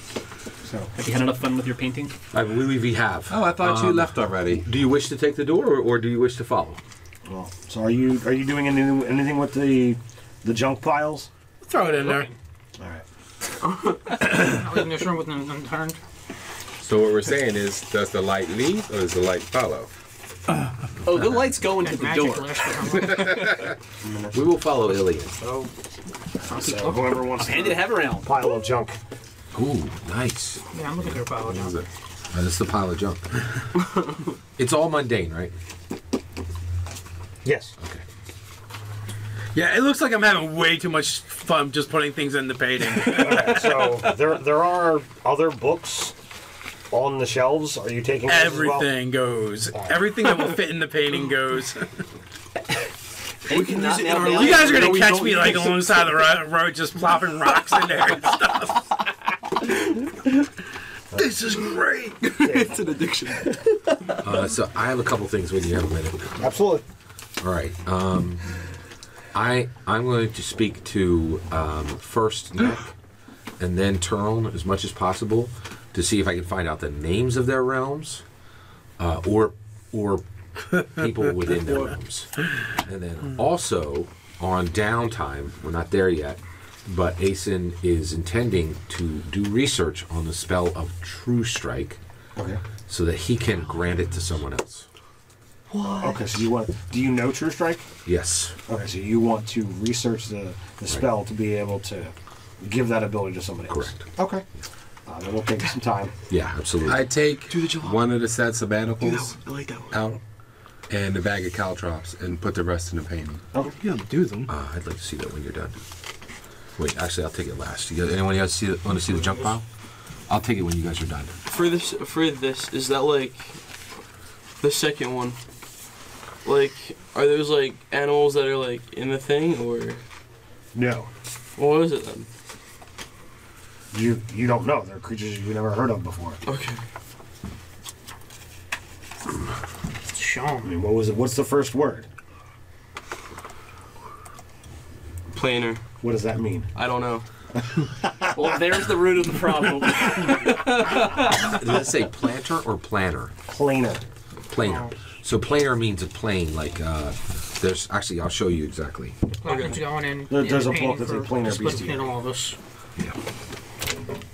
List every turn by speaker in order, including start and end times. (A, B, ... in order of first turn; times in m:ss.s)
0:00.6-0:00.9 A
0:00.9-0:02.1 B
0:02.3-0:06.8 C
0:03.3-0:04.6 D
0:07.2-0:11.3 A
0:11.7-0:12.3 E
0:12.0-0:12.3 F
0:12.8-0:13.0 A
0:14.1-0:16.0 F
0:16.8-0:19.9 D
0:21.0-0:22.6 B
0:21.8-0:23.6 F
0:24.0-0:25.7 A
0:24.3-0:25.4 C
0:26.4-0:29.0 A
0:26.4-0:27.3 F
0:27.4-0:28.3 B
0:29.5-0:31.2 C
0:30.7-0:31.8 F
0:31.4-0:31.9 D
0:32.3-0:33.4 C
0:34.6-0:35.5 C
0:37.4-0:37.7 A
0:37.8-0:38.0 C
0:39.5-0:44.0 E
0:43.0-0:46.1 A
0:46.9-0:48.9 A
0:48.3-0:52.0 E
0:49.7-0:50.0 A
0:53.5-0:55.4 B
0:53.5-0:55.9 G
0:54.3-0:58.8 E
1:01.1-1:01.4 A
1:01.4-1:03.5 G
1:02.4-1:02.8 A
1:04.2-1:06.5 C
1:06.4-1:06.8 A
1:07.4-1:08.6 C
1:09.3-1:12.9 C
1:13.6-1:18.2 C
1:19.0-1:32.0 C
1:32.4-1:32.6 A
1:32.9-1:34.9 C
1:35.8-1:36.2 G
1:36.0-1:37.9 A
1:38.0-1:38.6 C
1:38.7-1:44.4 A
1:43.7-1:44.0 C
1:45.1-1:46.2 A
1:46.3-1:47.1 C
1:46.8-1:49.4 D
1:47.5-1:48.3 G
1:49.0-1:50.1 G
1:49.9-1:50.2 D
1:50.9-1:53.4 D
1:53.6-1:54.5 E
1:54.5-1:55.8 C
1:56.8-1:59.6 C
2:00.3-2:01.4 C
2:01.5-2:03.8 G
2:04.6-2:05.4 G
2:06.4-2:10.0 G
2:10.7-2:11.1 A
2:11.6-2:12.3 G
2:13.9-2:16.4 A
2:16.4-2:16.8 G
2:20.1-2:20.8 F
2:20.6-2:22.0 A
2:25.3-2:25.8 G
2:26.0-2:26.7 A
2:26.7-2:27.2 G
2:27.8-2:28.6 A
2:28.3-2:31.6 B
2:31.4-2:33.3 C
2:33.5-2:34.0 A
2:34.5-2:39.2 C
2:34.6-2:34.9 F
2:39.4-2:42.6 F
2:39.4-2:39.8 G
2:40.3-2:42.1 A